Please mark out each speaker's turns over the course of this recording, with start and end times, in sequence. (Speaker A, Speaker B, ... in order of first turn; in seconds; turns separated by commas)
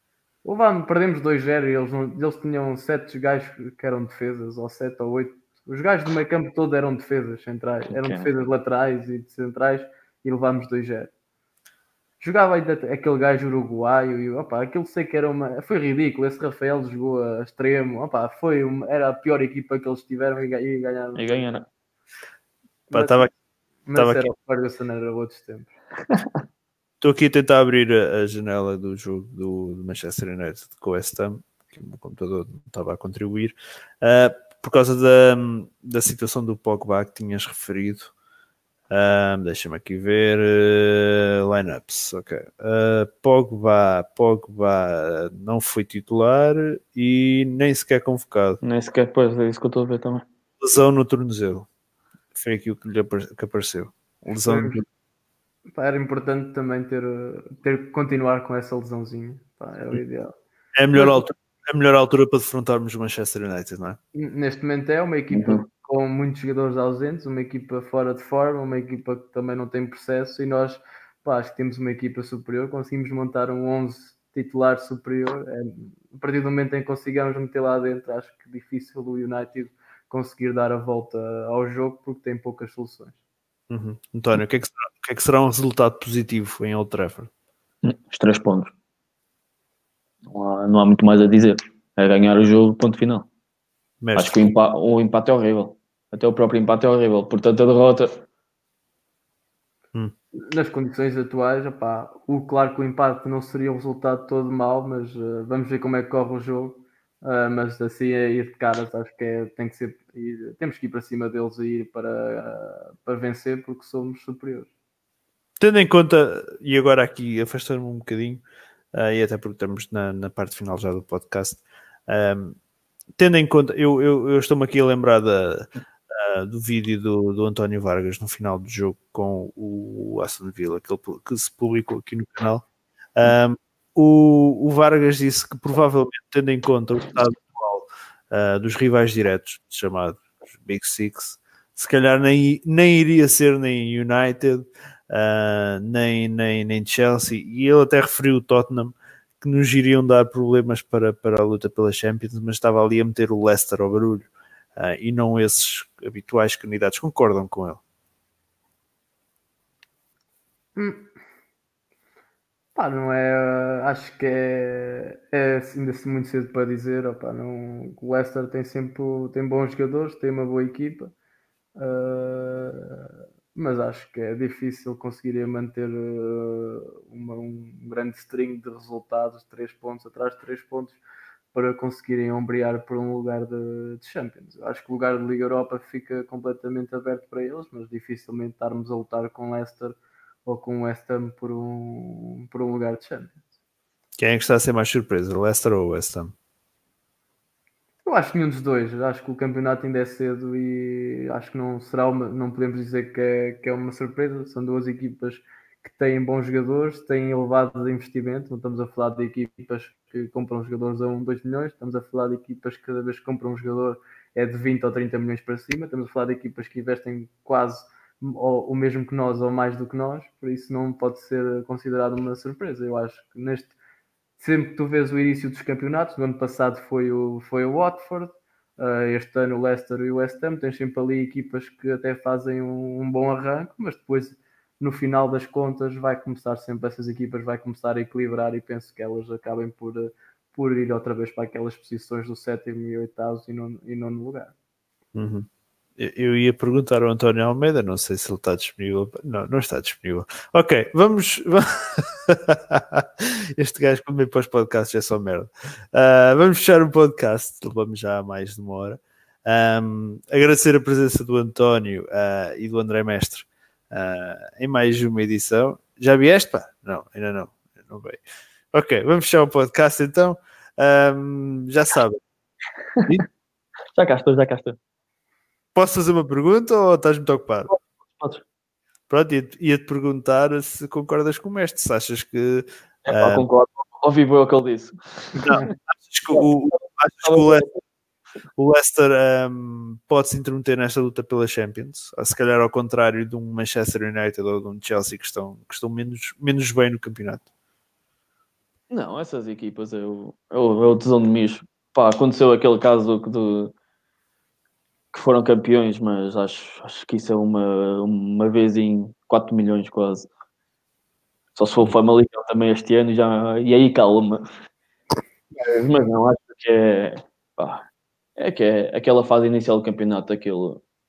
Speaker A: 0.5-11.1, Speaker B: 7.9-8.3, Speaker A: 12.2-21.5, Speaker B: 21.2-21.7, Speaker A: 22.9-23.3, Speaker C: 22.9-23.3, Speaker A: 23.9-25.7, Speaker C: 23.9-24.3, Speaker C: 27.0-38.1, Speaker C: 38.9-48.6, Speaker B: 48.6-50.2, Speaker C: 50.6-51.7, Speaker C: 52.4-54.8, Speaker A: 54.5-54.8, Speaker A: 55.7-60.3, Speaker C: 60.8-64.0, Speaker A: 60.9-61.2, Speaker A: 64.2-83.2, Speaker B: 65.3-65.6, Speaker C: 83.7-87.3, Speaker B: 87.8-88.7, Speaker B: 90.3-93.3, Speaker C: 94.0-94.4, Speaker B: 94.2-98.2, Speaker A: 100.3-114.7, Speaker C: 115.6-118.4, Speaker C: 118.9-122.6, Speaker C: 123.2-132.7, Speaker C: 133.2-157.8, Speaker A: 160.8-161.1, Speaker A: 162.8-171.1, Speaker A: 171.8-181.0, Speaker A: 181.5-193.4, Speaker C: 194.2-196.3, Speaker A: 198.1-223.7, Speaker A: 224.4-244.5, Speaker C: 245.1-245.5, Speaker C: 246.0-272.2, Speaker B: 273.9-274.8, Speaker C: 275.8-277.7, Speaker B: 277.7-278.4, Speaker C: 279.1-283.5, Speaker B: 283.1-285.4, Speaker C: 285.4-287.7, Speaker B: 286.3-287.8, Speaker C: 288.6-297.4, Speaker B: 298.9-303.7, Speaker B: 305.1-310.3, Speaker B: 311.6-314.5, Speaker B: 315.6-317.8, Speaker B: 318.4-320.8